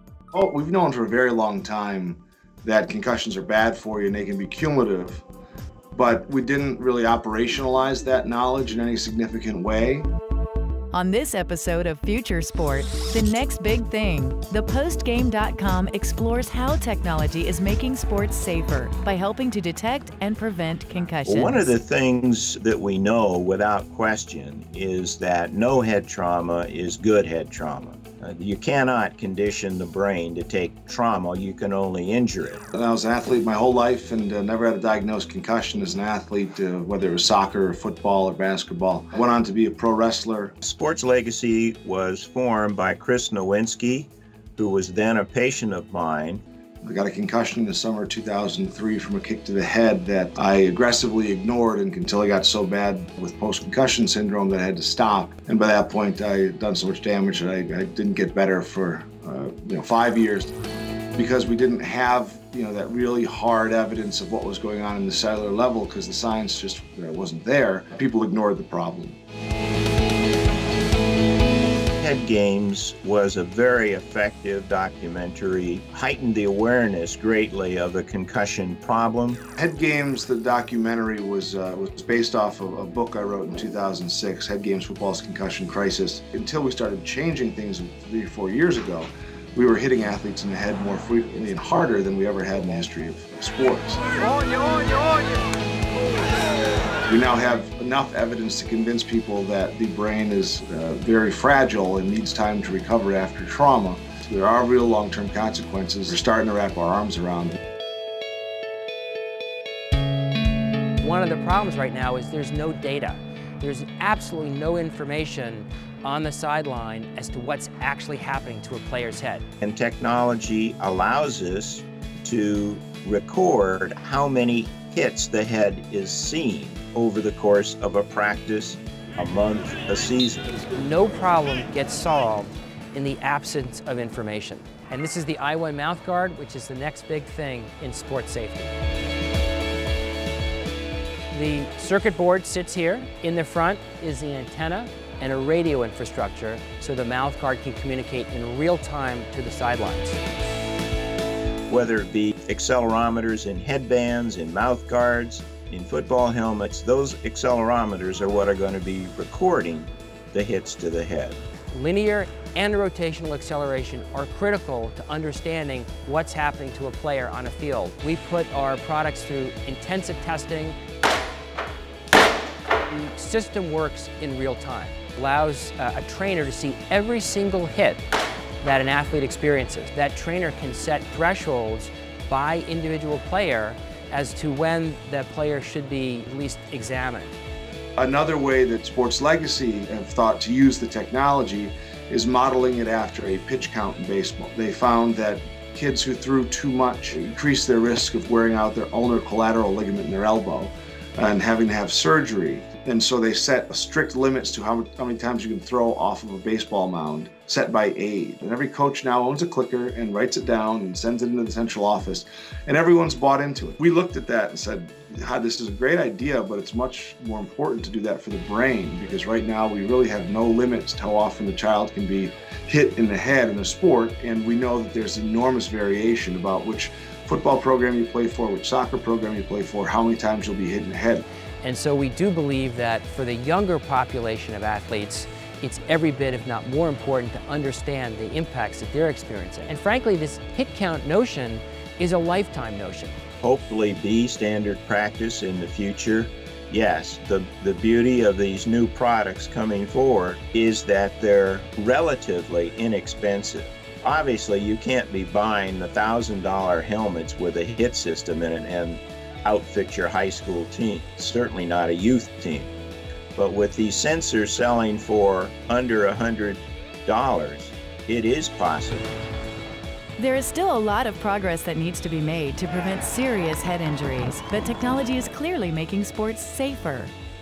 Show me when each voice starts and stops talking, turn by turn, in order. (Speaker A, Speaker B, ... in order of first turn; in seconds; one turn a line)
Speaker A: 0.3-5.2
Speaker A: 5.9-10.1
Speaker B: 10.9-21.8
Speaker C: 21.3-32.6
Speaker A: 32.7-40.5
Speaker C: 40.6-46.4
Speaker A: 46.8-60.5
Speaker A: 61.1-69.2
Speaker C: 72.0-79.4
Speaker A: 79.6-94.0
Speaker A: 97.1-107.6
Speaker D: 111.0-119.4
Speaker C: 119.6-130.6
Speaker D: 130.8-138.7
Speaker D: 141.3-150.2
Speaker C: 151.7-161.4
Speaker D: 161.7-170.8
Speaker D: 172.9-178.0
Speaker D: 178.6-187.3
Speaker A: 188.0-231.2
Speaker D: 231.6-243.2
Speaker C: 243.4-262.7
Speaker C: 263.4-269.1
Speaker B: 270.2-277.1